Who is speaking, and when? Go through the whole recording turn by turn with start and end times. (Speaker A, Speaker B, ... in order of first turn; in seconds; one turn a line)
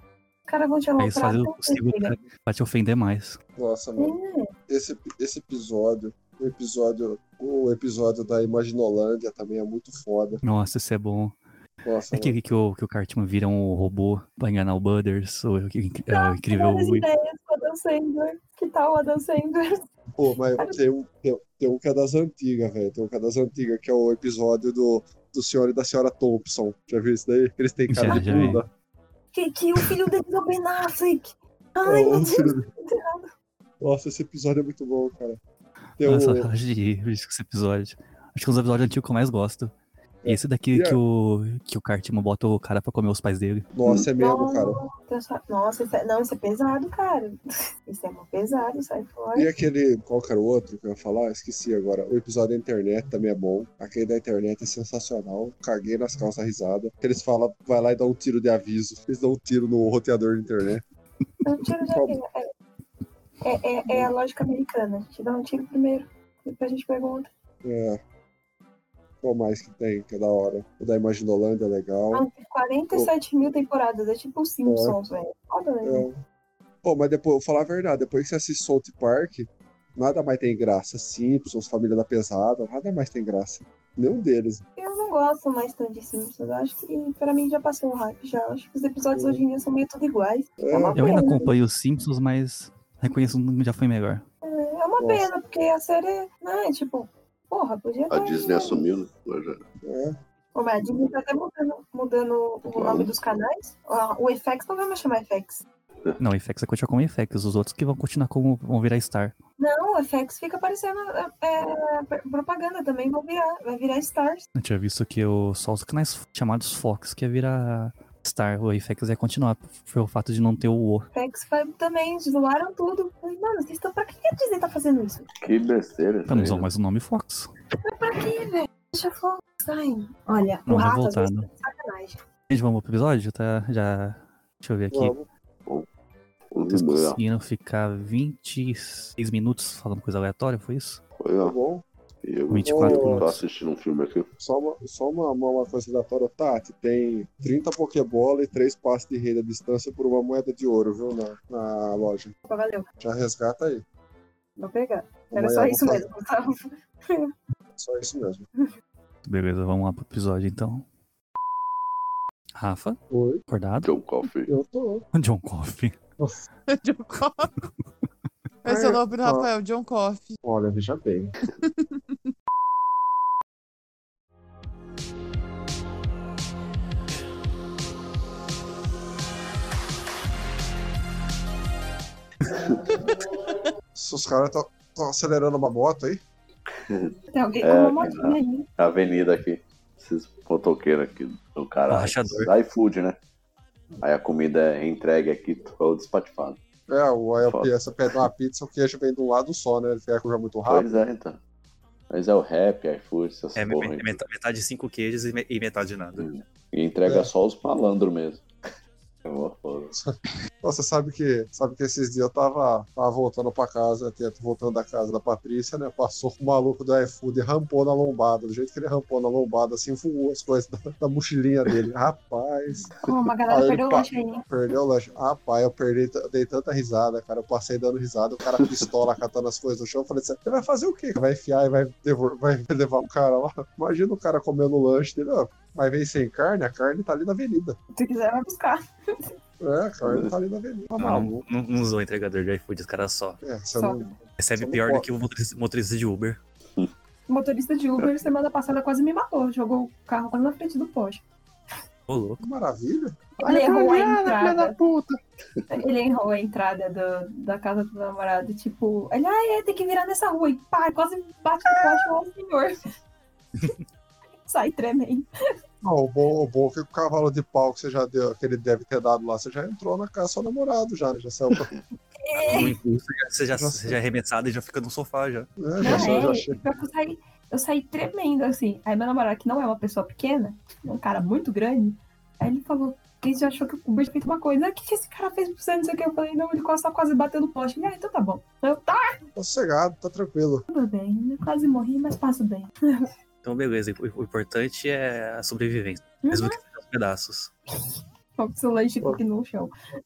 Speaker A: 0.5-2.2
Speaker B: 1.0-3.4
Speaker C: 3.6-4.2
Speaker A: 4.0-4.5
Speaker C: 4.7-10.4
Speaker B: 10.4-11.4
Speaker C: 11.8-12.3
Speaker B: 12.1-17.1
Speaker A: 16.1-19.8
Speaker C: 20.2-28.7
Speaker B: 27.9-28.6
Speaker A: 28.0-28.5
Speaker A: 29.3-33.3
Speaker C: 31.8-32.7
Speaker C: 33.8-35.4
Speaker C: 36.0-36.5
Speaker B: 36.0-39.7
Speaker C: 40.2-41.0
Speaker B: 40.3-43.7
Speaker C: 43.8-44.8
Speaker A: 44.2-49.5
Speaker C: 49.3-60.8
Speaker A: 61.4-62.5
Speaker C: 61.8-62.2
Speaker A: 63.4-67.3
Speaker C: 67.6-68.0
Speaker C: 69.2-72.3
Speaker A: 72.1-76.1
Speaker C: 74.7-75.0
Speaker C: 75.8-76.2
Speaker C: 76.8-84.6
Speaker A: 84.8-91.5
Speaker C: 89.1-89.4
Speaker C: 90.6-91.5
Speaker B: 91.0-94.2
Speaker A: 94.4-98.9
Speaker C: 95.0-95.3
Speaker D: 98.1-99.6
Speaker C: 99.8-100.2
Speaker A: 100.5-105.6
Speaker D: 102.7-103.2
Speaker B: 106.2-109.3
Speaker A: 109.6-114.5
Speaker B: 114.6-121.1
Speaker A: 121.1-125.3
Speaker D: 125.4-126.7
Speaker B: 126.3-127.5
Speaker A: 127.8-132.2
Speaker B: 130.7-131.5
Speaker B: 132.5-135.2
Speaker C: 134.9-135.2
Speaker D: 136.5-137.2
Speaker B: 136.7-141.0
Speaker D: 141.2-141.6
Speaker C: 141.4-141.8
Speaker D: 142.2-144.3
Speaker B: 142.5-143.4
Speaker C: 142.7-143.2
Speaker C: 144.4-152.3
Speaker A: 152.5-152.9
Speaker C: 153.0-153.8
Speaker A: 154.6-157.3
Speaker C: 155.3-156.1
Speaker C: 157.8-158.4
Speaker B: 159.2-160.8
Speaker B: 162.6-163.9
Speaker C: 163.1-163.4
Speaker D: 163.8-164.5
Speaker C: 164.5-165.1
Speaker B: 165.1-166.0
Speaker E: 166.7-167.5
Speaker E: 168.6-170.4
Speaker C: 168.7-169.5
Speaker C: 170.4-171.3
Speaker D: 182.6-182.8
Speaker C: 183.9-186.2
Speaker D: 186.8-193.2
Speaker A: 187.3-188.7
Speaker B: 191.9-192.5
Speaker D: 194.0-196.6
Speaker C: 196.9-201.0
Speaker D: 197.4-198.2
Speaker D: 200.7-201.4
Speaker D: 202.1-204.2
Speaker F: 203.6-206.3
Speaker D: 206.2-208.5
Speaker C: 207.1-207.3
Speaker D: 209.2-209.9
Speaker C: 209.9-222.9
Speaker A: 223.0-224.4
Speaker C: 223.5-237.8
Speaker A: 237.9-239.3
Speaker C: 239.6-241.4
Speaker F: 241.0-243.3
Speaker C: 243.4-245.1
Speaker A: 243.8-244.0
Speaker F: 244.4-246.4
Speaker A: 247.3-251.2
Speaker B: 252.1-252.4
Speaker C: 252.4-253.3
Speaker A: 253.4-254.8
Speaker D: 253.4-255.8
Speaker A: 255.7-262.8
Speaker A: 264.4-265.3
Speaker C: 265.8-271.7
Speaker A: 272.2-272.8
Speaker F: 272.5-275.5
Speaker C: 273.6-274.0
Speaker C: 275.6-276.6
Speaker A: 275.8-289.2
Speaker C: 289.4-290.6
Speaker A: 290.7-293.1
Speaker F: 293.4-295.8
Speaker B: 295.6-297.5
Speaker A: 296.2-296.6
Speaker A: 298.4-299.7